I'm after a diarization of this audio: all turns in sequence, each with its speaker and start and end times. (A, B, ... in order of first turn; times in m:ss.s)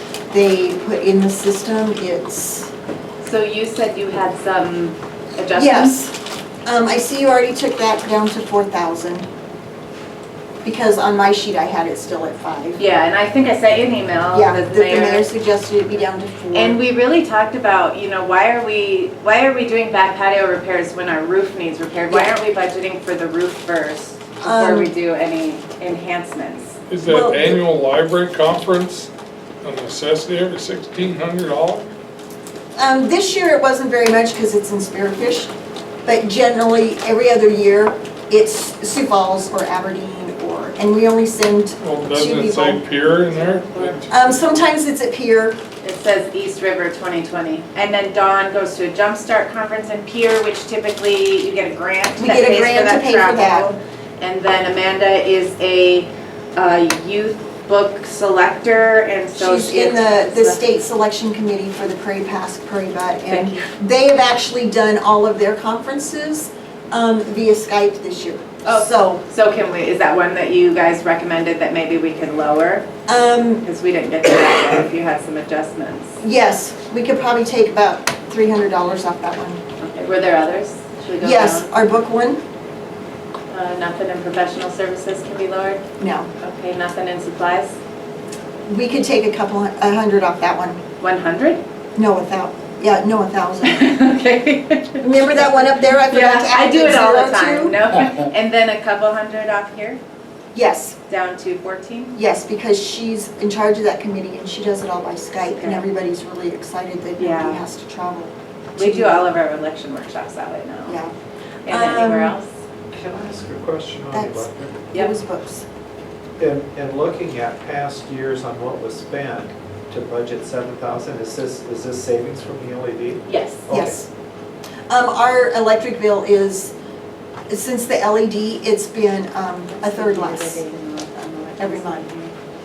0:00.3-0:02.7 A
0:03.2-0:06.0 B
0:05.6-0:09.3 A
0:10.6-0:12.8 A
0:12.8-0:15.3 B
0:14.3-0:16.8 A
0:16.5-0:26.8 B
0:24.4-0:24.9 A
0:26.9-0:29.1 C
0:27.1-0:27.6 A
0:29.6-0:31.9 C
0:32.8-0:35.5 A
0:36.0-0:42.8 A
0:41.8-0:44.3 C
0:43.3-0:44.0 B
0:44.1-0:45.6 A
0:45.8-1:00.6 B
0:52.2-0:53.7 A
0:59.4-1:09.2 A
1:03.3-1:03.7 B
1:08.6-1:12.9 B
1:13.1-1:13.6 A
1:13.6-1:16.2 B
1:16.2-1:19.6 A
1:19.8-1:21.7 B
1:21.2-1:22.4 A
1:23.5-1:25.8 B
1:26.0-1:26.3 A
1:26.4-1:27.8 B
1:28.7-1:30.8 A
1:31.0-1:31.6 B
1:32.0-1:33.9 A
1:33.6-1:40.0 B
1:35.0-1:37.8 A
1:40.5-1:41.0 A
1:41.1-1:42.2 B
1:42.2-1:49.2 A
1:45.6-1:45.8 B
1:47.2-1:47.6 B
1:48.8-1:51.0 B
1:50.9-1:51.1 A
1:51.7-1:52.5 B
1:51.7-1:52.4 A
1:52.9-1:54.8 D
1:54.1-1:55.7 A
1:56.4-2:04.0 D
2:03.3-2:03.9 B
2:03.7-2:04.1 A
2:04.9-2:06.7 A
2:07.5-2:10.6 A
2:09.8-2:12.3 B
2:11.6-2:12.1 A